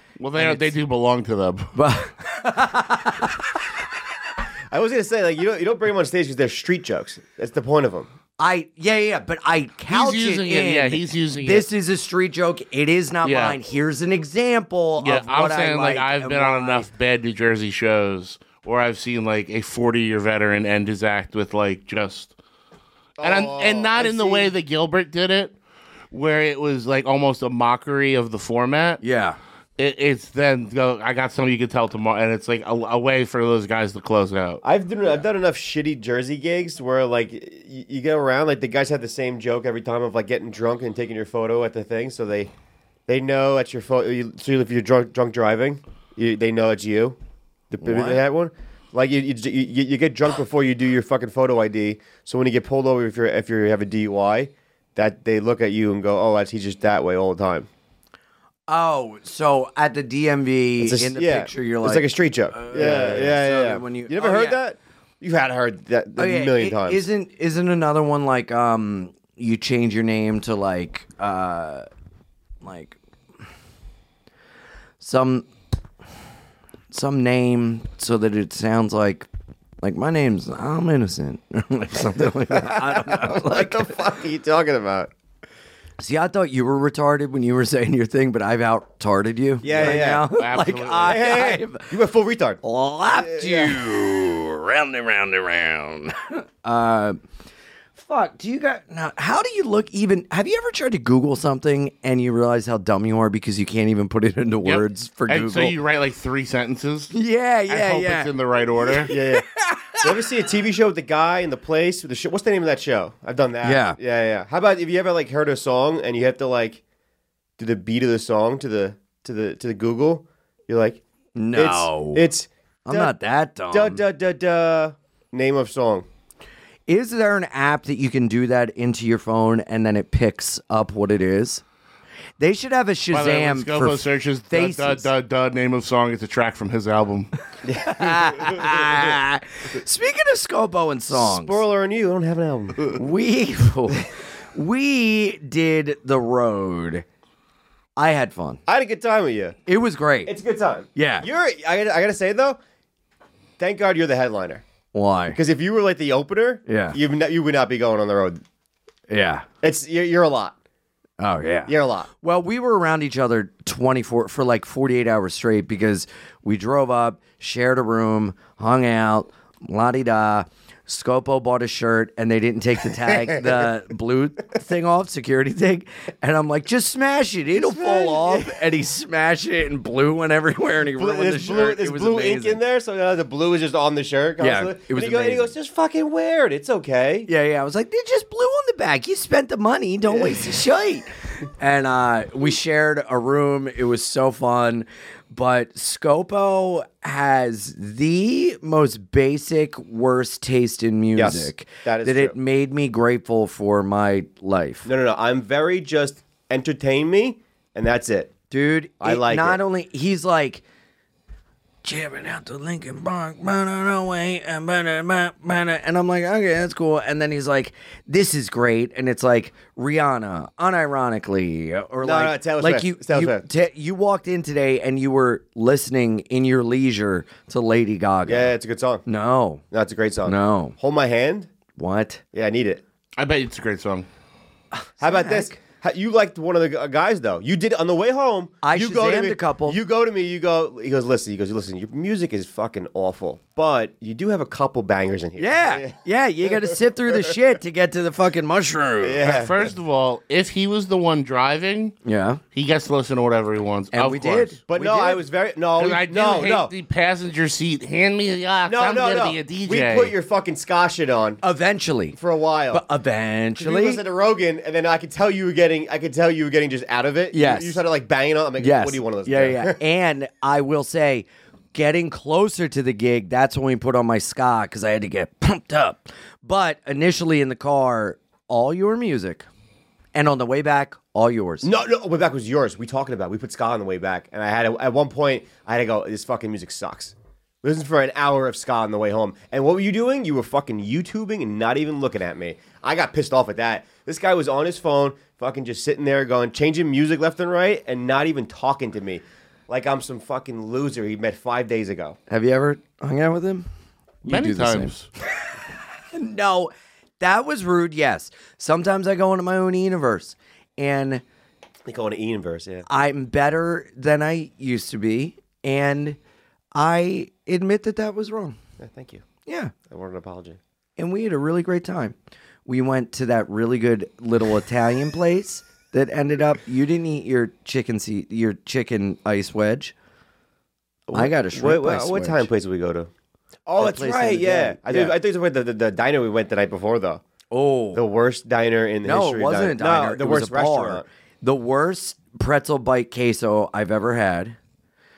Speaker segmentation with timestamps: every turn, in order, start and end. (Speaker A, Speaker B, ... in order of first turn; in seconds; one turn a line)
Speaker A: 0.2-1.8
Speaker B: 0.3-0.8
Speaker B: 1.8-3.6
Speaker C: 4.7-8.1
Speaker B: 8.4-16.9
Speaker A: 9.9-11.7
Speaker A: 13.2-13.6
Speaker A: 15.0-22.3
Speaker C: 23.2-24.5
Speaker A: 23.2-25.5
Speaker A: 26.1-29.0
Speaker B: 29.0-29.4
Speaker A: 29.8-34.6
Speaker C: 34.6-42.5
Speaker C: 43.1-47.2
Speaker C: 47.7-57.7
Speaker B: 47.8-48.2
Speaker B: 58.7-64.6
Speaker C: 60.8-67.0
Speaker B: 66.2-71.9
Speaker B: 72.6-73.0
Speaker B: 75.0-75.5
Speaker B: 76.9-79.3
Speaker B: 79.8-84.0
Speaker C: 82.5-85.1
Speaker B: 86.0-91.9
Speaker C: 89.6-90.3
Speaker A: 89.7-91.3
Speaker C: 91.0-92.6
Speaker B: 92.6-97.2
Speaker C: 93.2-93.8
Speaker B: 98.0-105.8
Speaker A: 104.6-107.2
Speaker B: 107.1-110.3
Speaker A: 107.7-109.1
Speaker C: 109.1-109.5
Speaker C: 110.0-116.8
Speaker B: 113.6-114.0
Speaker C: 117.6-121.0
Speaker B: 121.4-122.3
Speaker C: 121.5-123.1
Speaker B: 122.8-124.0
Speaker C: 123.7-126.1
Speaker B: 126.9-131.6
Speaker B: 132.4-135.1
Speaker A: 133.1-137.3
Speaker C: 137.7-138.6
Speaker B: 137.8-141.6
Speaker C: 141.1-143.0
Speaker B: 142.9-147.1
Speaker B: 148.0-148.6
Speaker C: 148.7-149.6
Speaker B: 149.7-150.4
Speaker C: 150.2-152.6
Speaker B: 150.9-151.3
Speaker C: 153.6-154.6
Speaker B: 154.9-155.4
Speaker C: 155.3-158.4
Speaker B: 156.7-157.0
Speaker B: 159.1-159.5
Speaker C: 159.6-160.6
Speaker B: 161.2-182.6
Speaker C: 161.7-162.1
Speaker C: 173.1-173.4
Speaker C: 177.6-178.6
Speaker C: 181.0-187.3
Speaker B: 184.4-185.6
Speaker B: 187.3-204.9
Speaker C: 190.1-190.6
Speaker C: 201.2-202.3
Speaker C: 204.8-208.3
Speaker B: 208.5-210.6
Speaker C: 209.0-209.6
Speaker B: 211.8-228.5
Speaker C: 222.0-223.4
Speaker C: 228.3-229.0
Speaker B: 229.1-229.6
Speaker C: 229.7-231.5
Speaker B: 230.2-230.8
Speaker B: 231.8-232.2
Speaker C: 232.3-232.8
Speaker A: 233.2-234.1
Speaker B: 234.7-235.6
Speaker C: 235.0-245.9
Speaker B: 238.6-239.8
Speaker B: 245.4-249.2
Speaker C: 246.4-246.7
Speaker C: 249.0-249.7
Speaker A: 249.2-251.9
Speaker B: 252.1-252.4
Speaker A: 252.6-255.2
Speaker B: 253.9-254.9
Speaker C: 254.7-256.7
Speaker A: 255.8-260.1
Speaker C: 258.7-261.4
Speaker B: 261.4-262.2
Speaker C: 262.1-262.8
Speaker B: 262.7-264.0
Speaker C: 263.6-269.8
Speaker B: 267.3-267.9
Speaker B: 268.6-279.5
Speaker B: 280.1-281.7
Speaker C: 281.6-302.2
Speaker B: 302.3-303.7
Speaker B: 304.2-304.9
Speaker A: 304.3-305.1
Speaker B: 306.1-311.2
Speaker C: 311.9-312.9
Speaker B: 312.9-316.2
Speaker B: 316.8-318.6
Speaker C: 318.8-319.2
Speaker B: 319.5-319.7
Speaker C: 319.9-320.6
Speaker B: 321.0-329.9
Speaker C: 331.1-333.1
Speaker B: 331.1-332.5
Speaker C: 333.7-337.2
Speaker B: 333.8-335.2
Speaker B: 337.5-338.0
Speaker C: 337.9-341.1
Speaker B: 339.0-344.6